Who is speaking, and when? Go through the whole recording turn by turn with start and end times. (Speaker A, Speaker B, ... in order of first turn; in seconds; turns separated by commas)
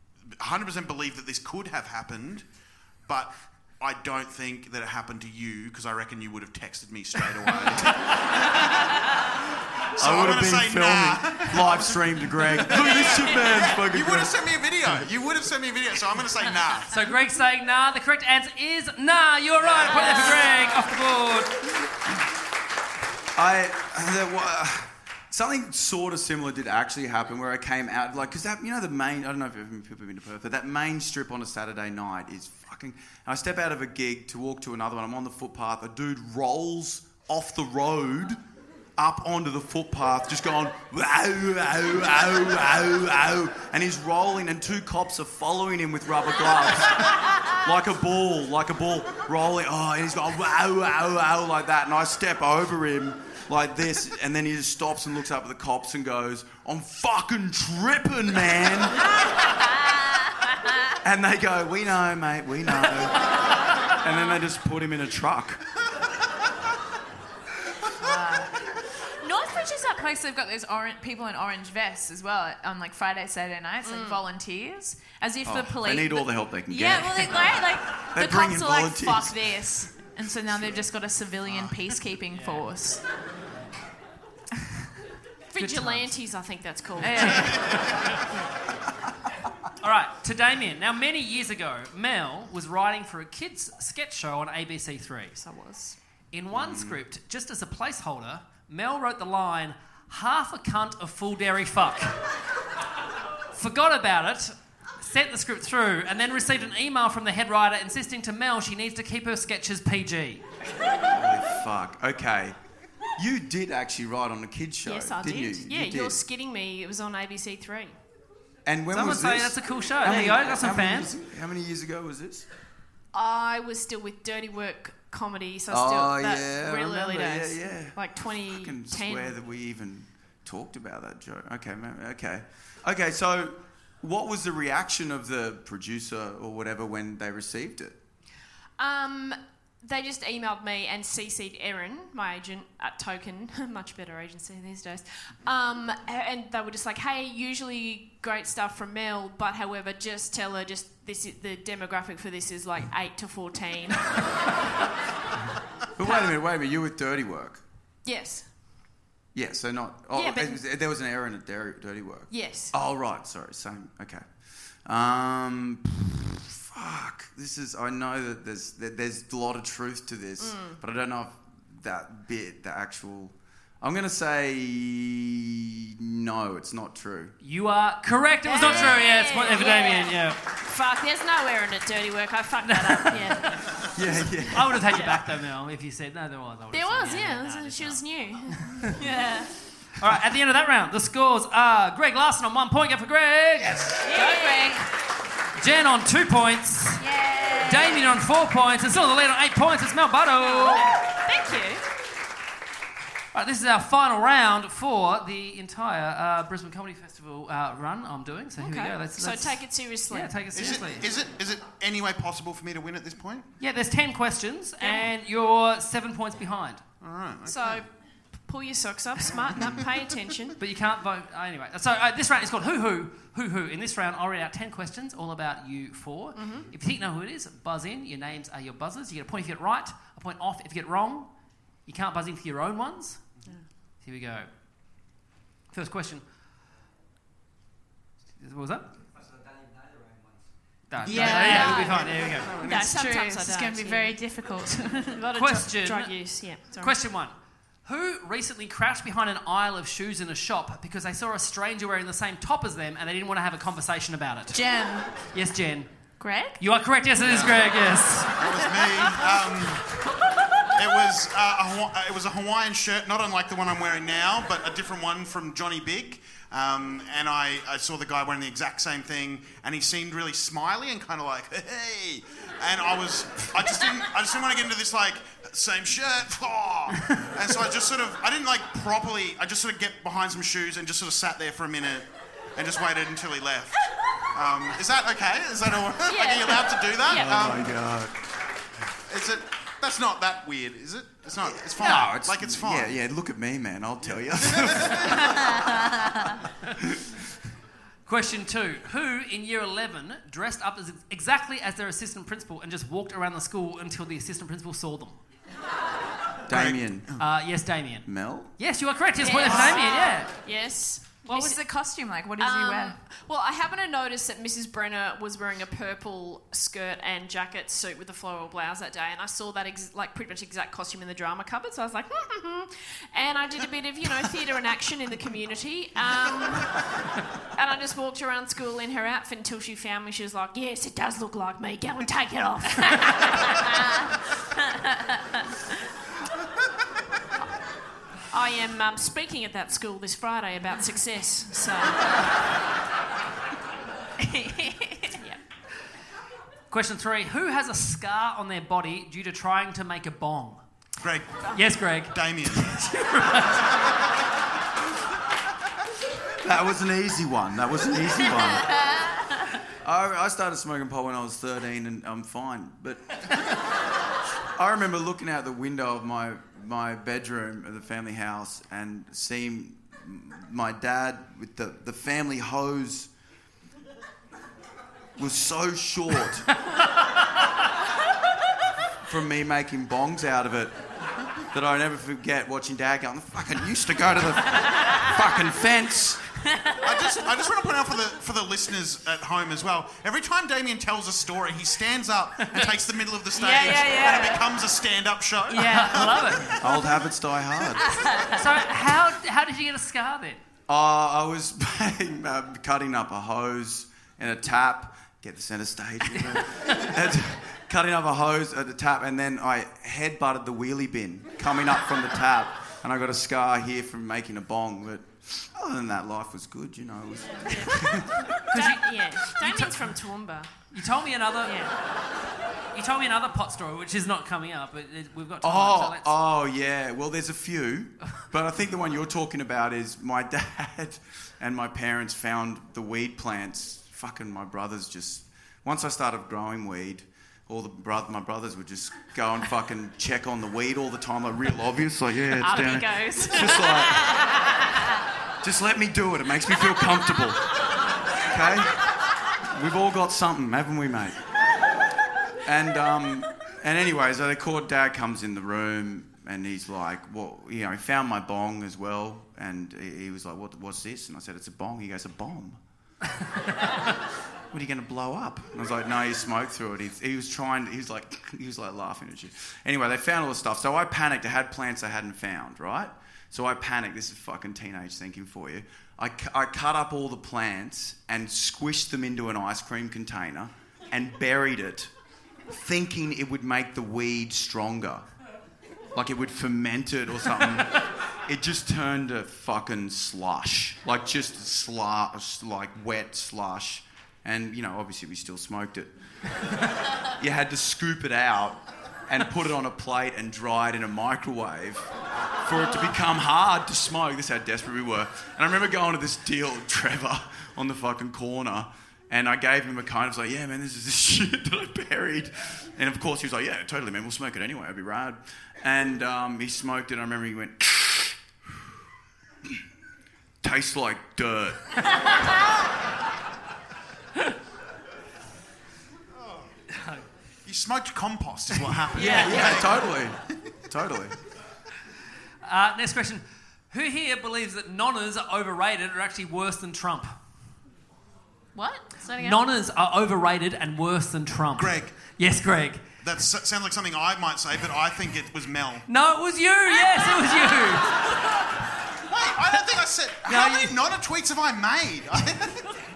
Speaker A: 0.3-2.5, Speaker A: 3.1-9.3, Speaker A: 10.0-17.0, Speaker B: 10.0-14.3, Speaker C: 16.9-21.5, Speaker D: 19.9-20.6, Speaker B: 23.4-38.4, Speaker B: 39.0-59.1, Speaker D: 59.8-61.0, Speaker B: 61.0-63.4, Speaker B: 63.9-65.6, Speaker D: 68.0-68.5, Speaker D: 69.2-83.0, Speaker E: 73.8-74.2, Speaker B: 75.5-79.4, Speaker C: 82.3-82.7, Speaker E: 85.5-87.6, Speaker C: 85.6-86.1, Speaker D: 87.0-88.0, Speaker C: 89.8-95.4, Speaker E: 95.4-96.0, Speaker C: 96.3-102.3, Speaker B: 96.5-97.0, Speaker C: 103.5-110.4, Speaker B: 111.1-112.6, Speaker B: 113.2-116.2, Speaker E: 114.8-118.0, Speaker B: 118.7-122.5, Speaker C: 118.9-121.1, Speaker E: 123.1-129.3, Speaker B: 125.7-138.0, Speaker E: 138.8-154.6, Speaker B: 156.0-157.6, Speaker E: 156.0-156.3, Speaker E: 158.1-158.5, Speaker B: 159.3-164.2, Speaker E: 160.1-160.6, Speaker E: 162.3-162.7, Speaker B: 164.9-177.3, Speaker E: 170.4-170.8, Speaker C: 177.4-180.4, Speaker E: 178.4-183.9, Speaker B: 178.6-178.9, Speaker C: 182.7-183.6, Speaker B: 183.9-185.0, Speaker C: 184.5-188.0, Speaker E: 184.9-185.2, Speaker E: 186.7-188.7, Speaker D: 188.9-189.5, Speaker C: 190.0-194.1, Speaker D: 194.0-194.8, Speaker E: 194.1-194.8, Speaker C: 195.6-197.0, Speaker D: 197.0-198.2, Speaker C: 197.7-200.9, Speaker E: 200.4-201.8, Speaker C: 203.3-211.1, Speaker E: 208.6-210.4, Speaker A: 210.5-213.5, Speaker C: 213.6-216.8, Speaker E: 214.8-215.1, Speaker A: 217.0-217.8, Speaker E: 217.5-217.9, Speaker E: 218.5-220.6, Speaker A: 219.3-219.9, Speaker C: 220.6-231.3, Speaker E: 226.4-226.7, Speaker C: 231.8-233.3, Speaker C: 234.0-234.5, Speaker C: 235.7-236.2, Speaker C: 238.4-238.9, Speaker C: 240.9-242.7, Speaker D: 241.0-245.2, Speaker E: 241.1-244.2, Speaker E: 245.1-247.0, Speaker C: 245.3-254.6, Speaker D: 254.5-255.2, Speaker C: 255.3-255.9, Speaker D: 256.2-256.6, Speaker C: 256.6-258.3, Speaker A: 257.2-257.6, Speaker A: 258.3-259.9, Speaker D: 258.4-259.4, Speaker A: 260.8-283.8, Speaker A: 284.3-287.7, Speaker E: 286.1-287.3, Speaker B: 287.1-288.1, Speaker A: 289.1-293.0, Speaker B: 291.6-295.9, Speaker A: 294.5-295.2, Speaker D: 295.4-296.4, Speaker B: 296.8-297.2, Speaker C: 298.1-305.2, Speaker B: 306.5-307.1, Speaker A: 306.5-307.2, Speaker C: 307.2-310.3, Speaker B: 308.1-308.5, Speaker E: 309.2-311.6, Speaker D: 309.5-310.2, Speaker D: 311.3-313.0, Speaker E: 312.4-326.9, Speaker E: 327.6-333.7, Speaker D: 333.8-334.1, Speaker D: 334.6-335.4, Speaker E: 338.3-342.2, Speaker D: 344.2-345.2, Speaker C: 346.7-350.6, Speaker A: 351.0-352.8, Speaker C: 351.5-353.7, Speaker B: 356.4-358.9, Speaker D: 358.6-359.4, Speaker B: 359.8-363.3, Speaker B: 364.5-373.1, Speaker B: 375.2-376.5, Speaker B: 379.1-380.8, Speaker B: 381.5-386.2, Speaker D: 386.5-387.3, Speaker A: 386.8-396.4, Speaker D: 393.3-394.5, Speaker D: 395.5-396.9, Speaker C: 395.5-396.6, Speaker B: 396.6-397.9, Speaker D: 397.8-398.7, Speaker C: 398.4-400.4, Speaker B: 400.7-418.2, Speaker E: 417.4-420.5, Speaker C: 418.5-419.9, Speaker C: 420.7-421.7, Speaker E: 421.4-421.7, Speaker C: 422.7-426.1, Speaker B: 425.4-444.1, Speaker E: 442.4-444.1, Speaker B: 445.4-447.6, Speaker B: 448.1-451.2, Speaker B: 452.4-462.6, Speaker B: 464.5-481.9, Speaker B: 482.5-485.1, Speaker B: 485.9-495.9, Speaker B: 497.0-501.9, Speaker B: 502.4-518.7, Speaker B: 520.4-521.8, Speaker A: 527.5-529.9, Speaker C: 528.9-529.6, Speaker B: 529.0-531.1, Speaker C: 532.5-537.1, Speaker D: 538.5-539.4, Speaker C: 539.2-542.8, Speaker A: 541.6-542.0, Speaker A: 543.0-545.9, Speaker C: 545.9-548.0, Speaker D: 546.7-548.1, Speaker A: 549.0-552.7, Speaker C: 550.3-550.8